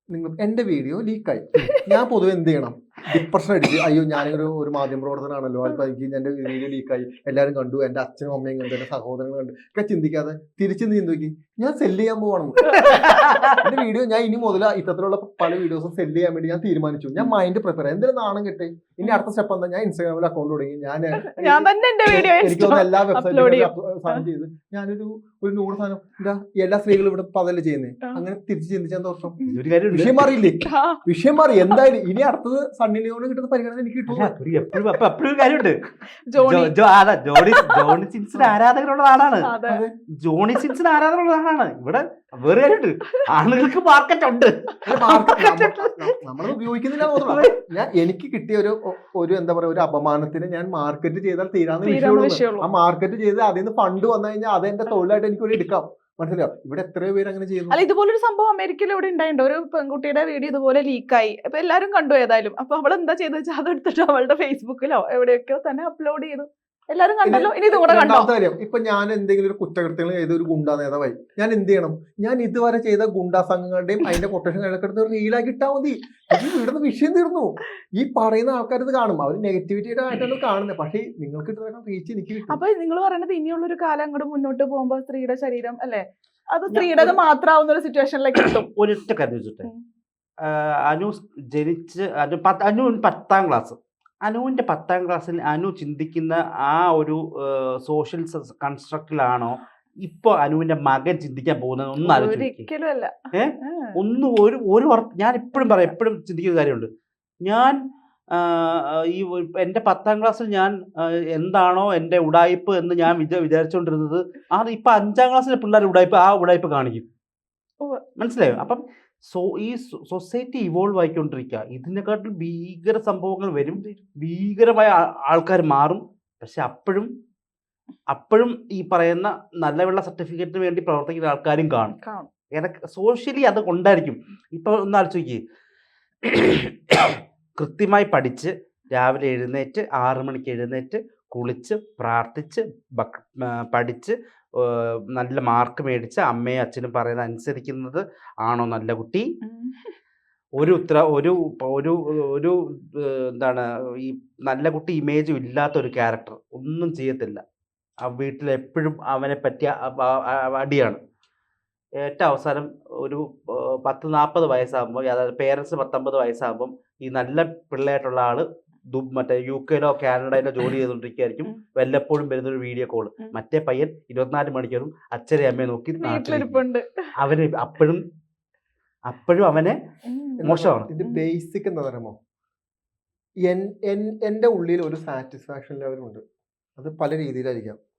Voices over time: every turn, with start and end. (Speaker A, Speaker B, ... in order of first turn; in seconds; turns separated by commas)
Speaker A: 0.1-12.9, Speaker B: 12.7-13.6, Speaker A: 13.6-34.3, Speaker C: 21.2-24.2, Speaker B: 29.5-30.3, Speaker C: 30.6-31.0, Speaker B: 34.1-35.8, Speaker C: 36.3-36.7, Speaker B: 36.4-39.5, Speaker C: 37.3-37.9, Speaker C: 39.4-39.8, Speaker A: 39.7-39.9, Speaker B: 40.2-46.1, Speaker A: 44.9-57.8, Speaker C: 45.0-45.6, Speaker B: 47.0-47.5, Speaker C: 51.8-52.7, Speaker C: 57.7-68.3, Speaker A: 67.2-82.6, Speaker C: 82.5-88.7, Speaker B: 86.7-87.2, Speaker B: 88.3-89.7, Speaker B: 90.4-102.7, Speaker C: 102.0-104.0, Speaker B: 103.3-106.9, Speaker C: 105.5-105.9, Speaker B: 107.4-107.8, Speaker B: 108.3-110.7, Speaker B: 111.3-117.1, Speaker B: 118.2-127.1, Speaker B: 128.1-131.9, Speaker C: 132.0-132.3, Speaker B: 132.5-135.4, Speaker B: 136.3-149.2, Speaker C: 149.4-149.9, Speaker B: 150.6-157.4, Speaker B: 158.0-161.0, Speaker B: 162.0-176.6, Speaker C: 175.9-177.1, Speaker B: 177.2-178.0, Speaker B: 179.1-179.8, Speaker C: 180.1-180.5, Speaker A: 180.4-182.1, Speaker B: 180.4-180.9, Speaker A: 183.5-186.2, Speaker A: 186.8-187.8